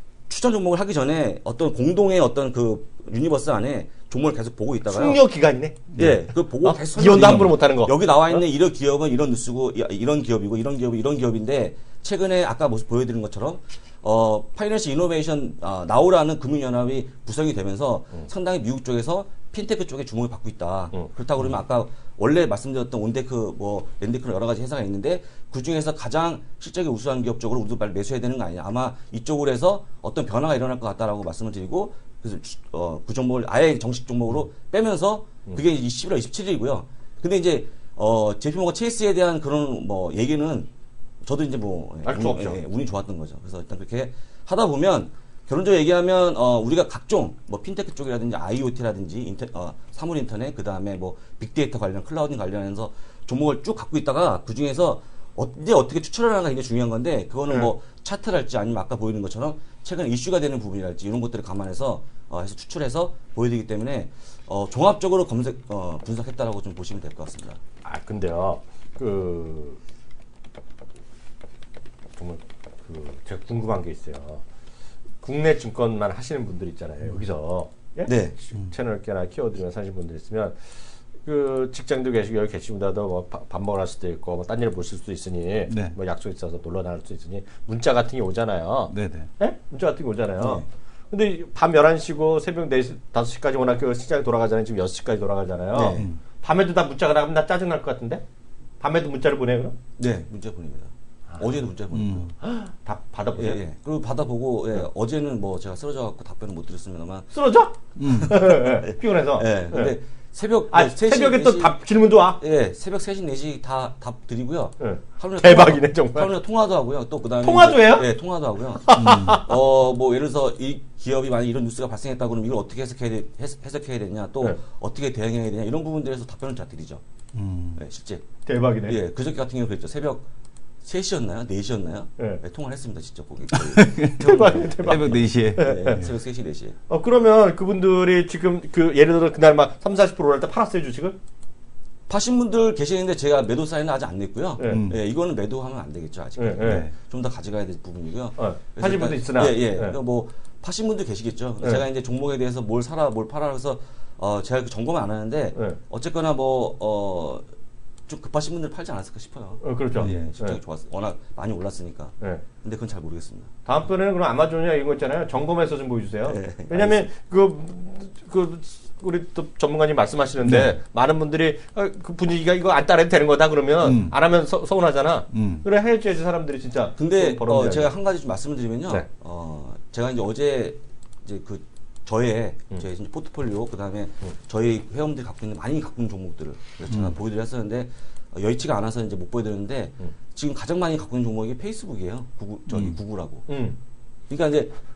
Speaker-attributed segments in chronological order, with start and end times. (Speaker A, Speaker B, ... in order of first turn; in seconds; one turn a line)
Speaker A: 0.3-5.2
Speaker B: 4.9-8.4
Speaker C: 5.9-6.2
Speaker A: 6.0-40.7
Speaker A: 41.2-67.6
Speaker B: 42.0-42.6
Speaker B: 67.8-69.8
Speaker B: 72.2-74.4
Speaker B: 75.2-80.6
Speaker A: 78.1-78.4
Speaker B: 81.2-98.2
Speaker C: 85.7-86.0
Speaker C: 88.9-89.3
Speaker A: 90.4-90.7
Speaker A: 95.7-96.1
Speaker B: 98.8-99.8
Speaker A: 100.0-102.3
Speaker C: 101.9-102.3
Speaker B: 102.4-103.6
Speaker A: 103.4-107.3
Speaker B: 107.3-110.0
Speaker C: 108.0-108.5
Speaker A: 108.2-111.8
Speaker B: 110.7-112.4
Speaker A: 112.4-127.0
Speaker B: 114.8-116.3
Speaker B: 117.4-118.1
Speaker B: 118.8-119.5
Speaker C: 118.9-119.4
Speaker C: 127.3-127.8
Speaker A: 127.8-128.2
Speaker B: 128.5-129.0
Speaker A: 128.9-130.3
Speaker A: 130.8-136.8
Speaker C: 133.5-136.1
Speaker B: 134.2-136.0
Speaker B: 136.9-141.2
Speaker A: 142.1-157.4
Speaker B: 144.6-144.8
Speaker C: 144.7-145.0
Speaker B: 146.4-146.9
Speaker C: 146.6-146.9
Speaker B: 148.4-150.0
Speaker B: 155.5-155.8
Speaker A: 158.1-163.5
Speaker B: 159.6-160.6
Speaker C: 160.0-160.3
Speaker B: 163.7-177.9
Speaker A: 166.3-167.1
Speaker C: 170.4-170.7
Speaker C: 173.8-174.2
Speaker C: 175.3-175.7
Speaker A: 177.0-193.5
Speaker C: 186.9-187.2
Speaker C: 192.7-193.0
Speaker B: 193.5-193.8
Speaker A: 194.3-194.7